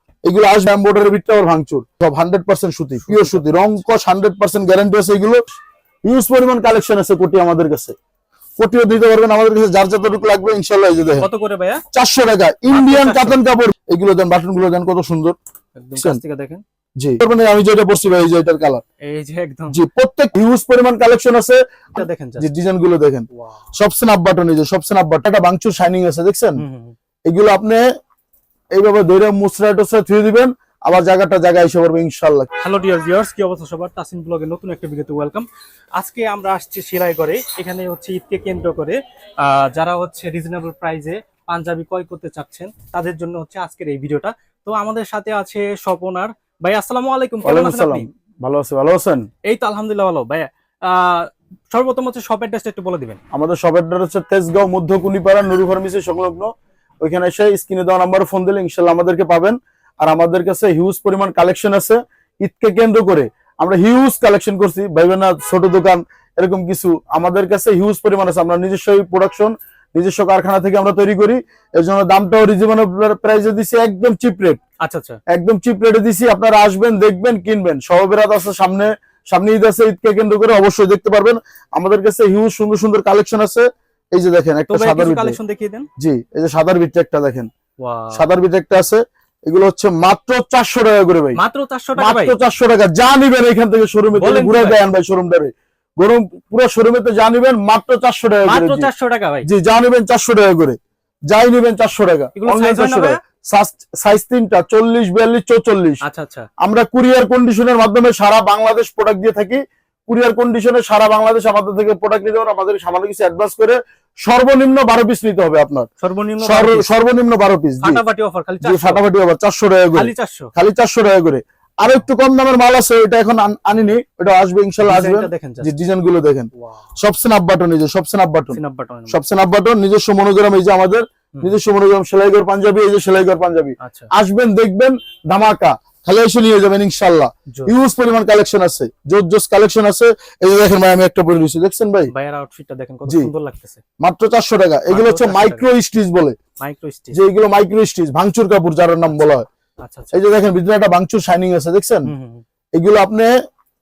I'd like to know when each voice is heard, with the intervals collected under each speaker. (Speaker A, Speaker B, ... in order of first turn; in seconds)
Speaker A: 0.3-5.4, 6.1-8.0, 8.6-11.3, 11.9-15.4, 15.9-16.2, 17.0-18.8, 19.7-26.6, 27.3-27.8, 28.8-32.5, 47.5-49.3, 53.3-56.5, 57.0-74.6, 75.3-85.4, 86.0-87.5, 88.1-91.4, 92.0-98.9, 99.5-100.8, 101.3-106.0, 106.6-115.9, 116.4-118.0, 118.6-128.6, 129.1-142.1, 144.0-146.4, 147.1-149.5, 150.1-152.1, 152.8-153.3
Speaker B: 3.1-3.8, 11.2-11.8, 12.7-13.4, 15.8-16.6, 19.0-19.8, 21.9-22.5, 23.3-23.6, 26.6-26.9, 32.6-48.1, 49.4-53.2, 74.8-75.2, 84.7-85.9, 87.8-88.3, 91.4-92.4, 94.2-94.8, 98.5-99.5, 102.4-103.2, 106.0-106.5, 116.0-116.9, 117.8-119.0, 119.9-120.5, 124.8-125.7, 126.6-126.9, 128.5-129.2, 133.8-134.1, 137.5-137.8, 142.1-143.8, 144.9-145.6, 146.6-147.2, 149.8-150.2, 152.1-152.4